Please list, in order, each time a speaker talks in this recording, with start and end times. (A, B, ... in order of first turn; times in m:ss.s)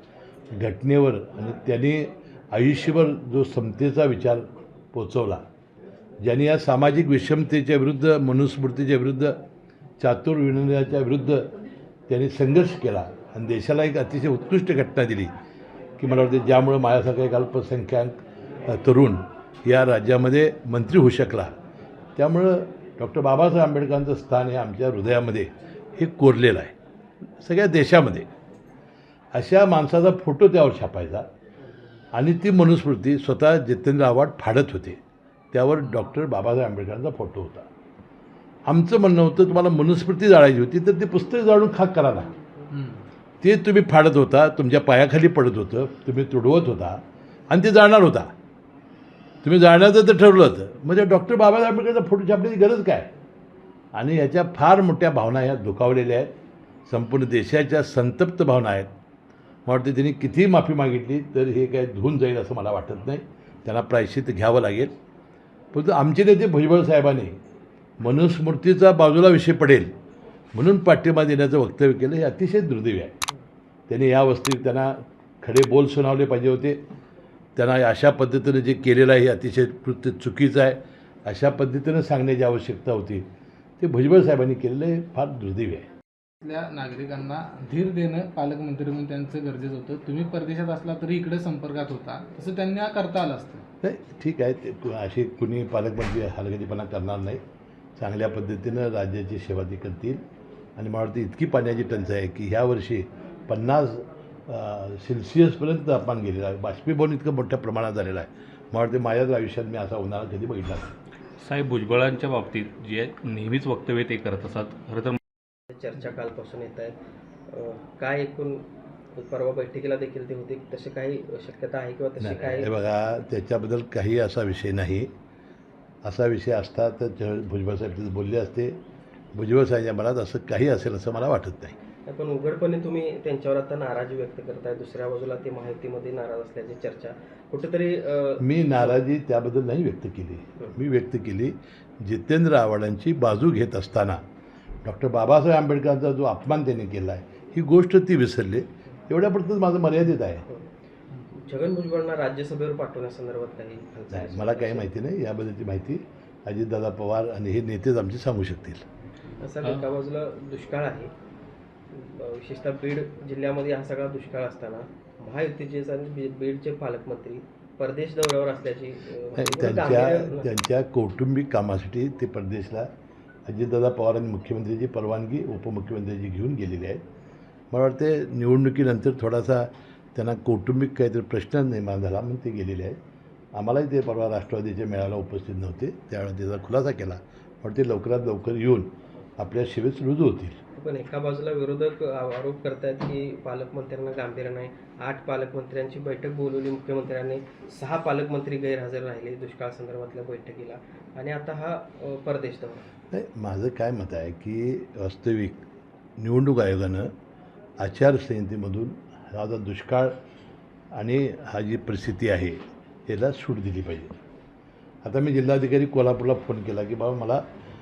0:00.5-0:05.4 A
0:06.2-0:09.4 A
0:10.0-0:11.5 A
0:12.1-0:15.3 A
0:16.0-0:21.5 A
0:22.2-0:26.7 A
0:27.4-0:28.3 A
0:29.3-0:31.3 A
0:32.1-0:35.0 A
0:35.5-0:37.7 A
0:38.6-0:42.3 A
0:42.7-0:43.0 B
0:43.4-0:48.3 A
0:49.4-0:53.1 A
0:53.9-0:56.3 A
0:56.8-0:58.9 A
0:59.6-1:04.9 A
1:05.7-1:07.4 A
1:08.0-1:09.9 A
1:10.5-1:13.1 A
1:13.9-1:16.8 A
1:17.6-1:23.2 A
1:23.8-1:25.9 A
1:26.4-1:33.6 B
1:33.8-1:37.4 A
1:38.0-1:40.2 A
1:40.8-1:50.9 A
1:51.4-1:55.2 C
1:55.7-1:57.0 D
1:57.5-2:02.7 D
2:02.2-2:05.1 A
2:06.0-2:08.8 A
2:09.3-2:11.8 A
2:12.1-2:19.0 D
2:18.4-2:24.2 A
2:24.8-2:30.4 A
2:31.3-2:34.9 D
2:34.1-2:38.8 A
2:39.4-2:41.1 D
2:41.9-2:50.5 D
2:49.4-2:52.9 A
2:53.4-2:57.0 A
2:57.7-3:03.0 A
3:03.5-3:10.6 A
3:10.8-3:22.8 D
3:23.1-3:25.6 A
3:26.2-3:27.1 A
3:27.8-3:30.2 A
3:30.9-3:34.2 A
3:35.0-3:37.4 A